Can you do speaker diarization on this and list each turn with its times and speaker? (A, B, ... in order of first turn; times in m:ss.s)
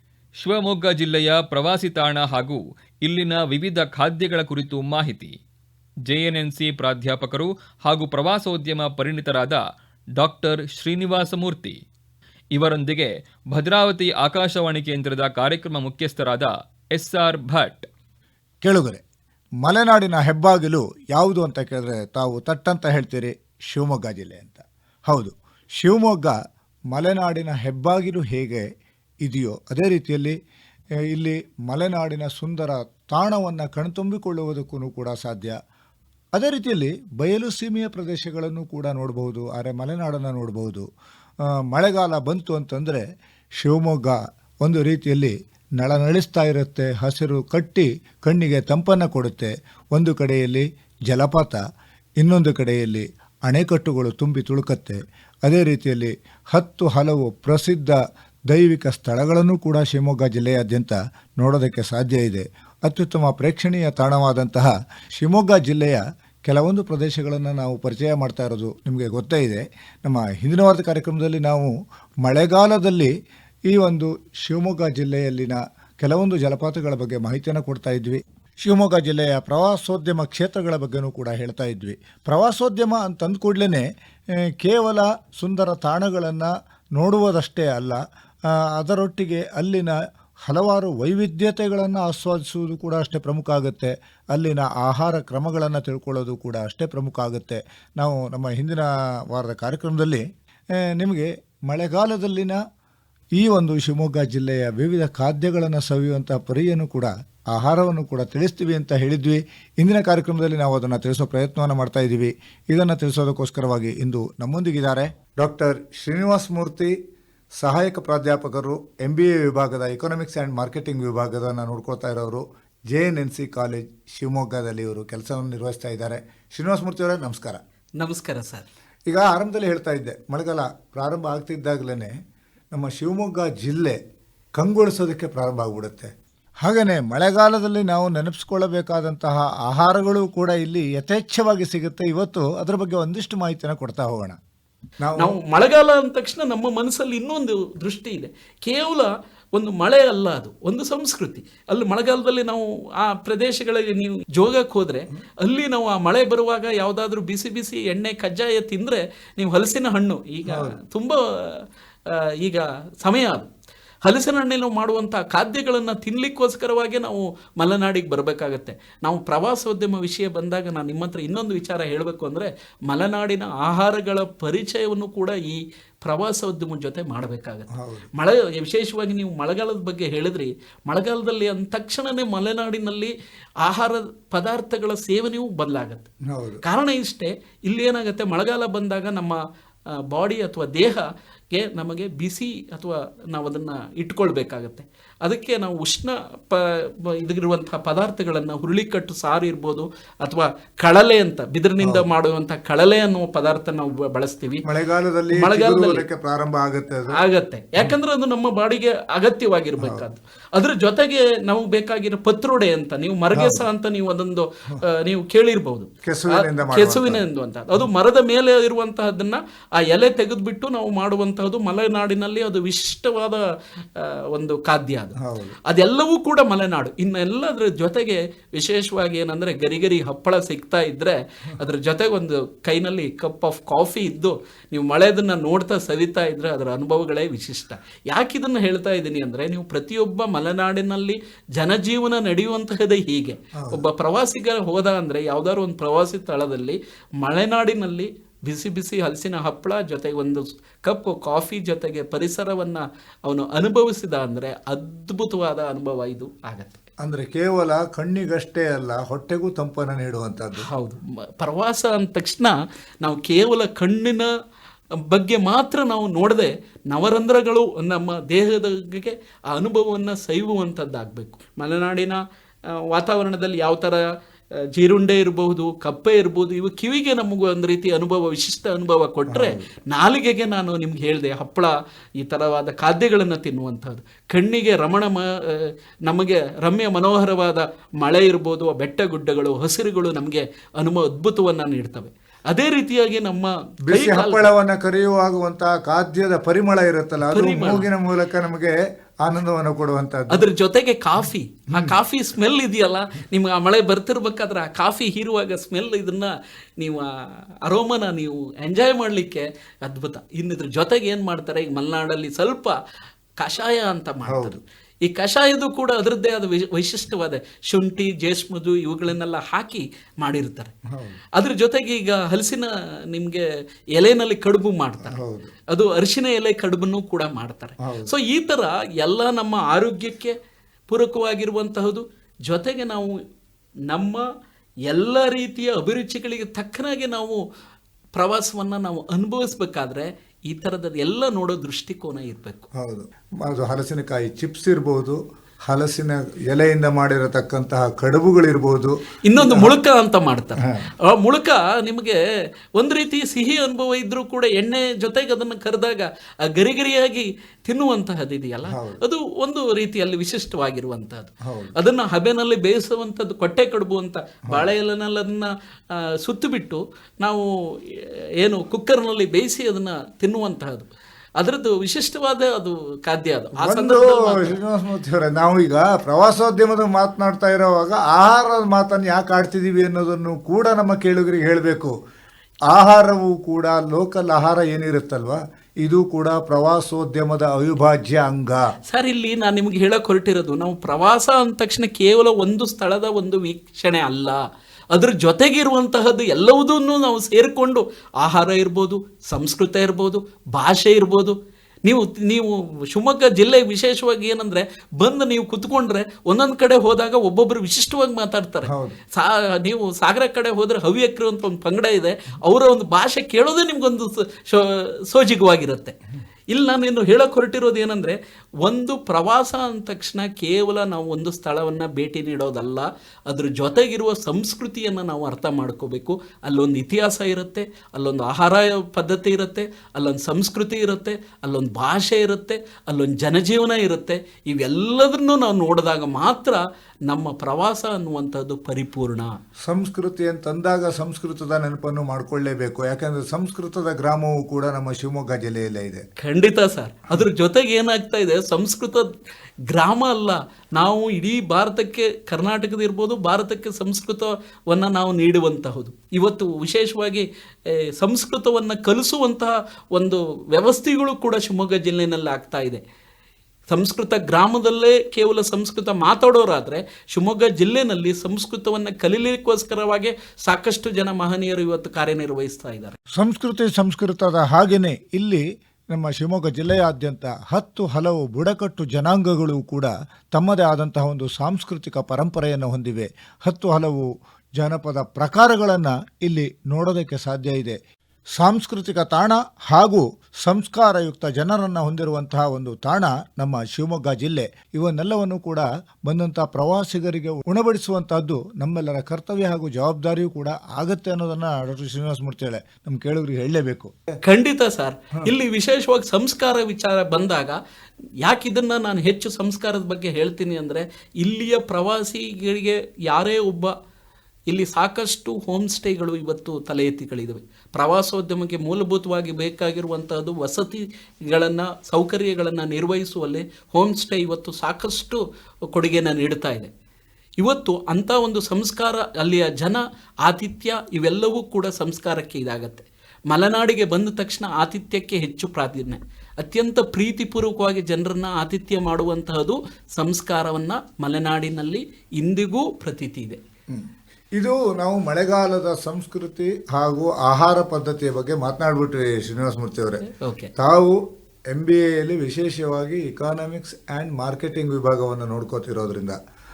0:00.4-0:05.3 A
0:06.1-0:09.6 A
0:10.2-0:11.8 A
0:12.6-0:17.9 A
0:18.6-0:19.0 B
0:19.6-0:26.4 B
0:26.9-0:28.7 B
0:29.2-0:30.4 B
0:31.1-0:35.6 B
0:36.4-0:40.9 B
0:41.4-0:43.0 B
0:43.6-0:51.6 B
0:52.2-1:11.7 B
1:12.2-1:13.1 B
1:13.7-1:23.9 B
1:24.6-1:28.0 B
1:28.8-1:30.0 B
1:30.5-1:40.2 B
1:40.9-1:42.6 B
1:43.4-1:56.9 B
1:57.6-2:07.6 B
2:08.0-2:08.7 C
2:09.1-2:12.1 B
2:12.7-2:14.0 B
2:14.6-2:16.1 B
2:16.6-2:24.4 B
2:25.0-2:25.4 B
2:25.2-2:43.5 C
2:40.5-2:40.8 B
2:44.0-3:03.1 C
2:57.7-2:58.1 B
3:03.6-3:06.1 C
3:06.3-3:06.6 B
3:06.6-3:09.4 C
3:09.9-3:24.6 C
3:24.6-3:27.2 B
3:25.3-3:26.0 C
3:27.1-3:43.4 C
3:29.8-3:30.1 B
3:33.3-3:33.7 B
3:36.0-3:37.2 B
3:44.0-4:16.8 C
3:45.2-3:45.6 B
4:17.0-4:20.7 B
4:20.6-4:24.3 C
4:25.1-4:32.2 C
4:32.7-4:34.0 C
4:34.8-4:54.5 C
4:39.3-4:39.7 B
4:53.9-5:00.5 B
4:57.3-4:57.9 C
5:00.3-5:12.8 C
5:13.4-5:20.7 C
5:14.3-5:14.6 B
5:20.9-5:21.2 B
5:21.4-5:23.4 C
5:24.0-5:30.4 C
5:25.1-5:25.5 B
5:27.8-5:28.1 B
5:30.9-5:33.1 C
5:33.9-5:34.2 C
5:34.9-5:37.4 C
5:38.2-5:42.7 C
5:42.8-5:49.8 B
5:49.3-5:52.2 C
5:52.8-6:14.6 C
5:58.7-5:59.0 B
6:01.5-6:01.8 B
6:13.6-6:21.9 B
6:22.7-6:28.6 B
6:28.9-6:34.4 C
6:34.9-6:56.0 C
6:48.7-6:49.0 B
6:56.5-7:19.3 C
7:19.7-7:26.0 B
7:26.2-7:29.1 C
7:29.7-7:42.8 C
7:43.7-7:53.0 C
7:53.2-8:04.1 B
8:04.6-8:07.8 B
8:08.4-8:24.0 B
8:24.2-8:27.6 C
8:28.2-8:33.7 C
8:34.5-8:46.7 C
8:47.4-9:03.4 C
9:04.4-9:10.1 B
9:10.2-9:10.5 C
9:10.6-9:11.0 B
9:11.5-9:16.2 B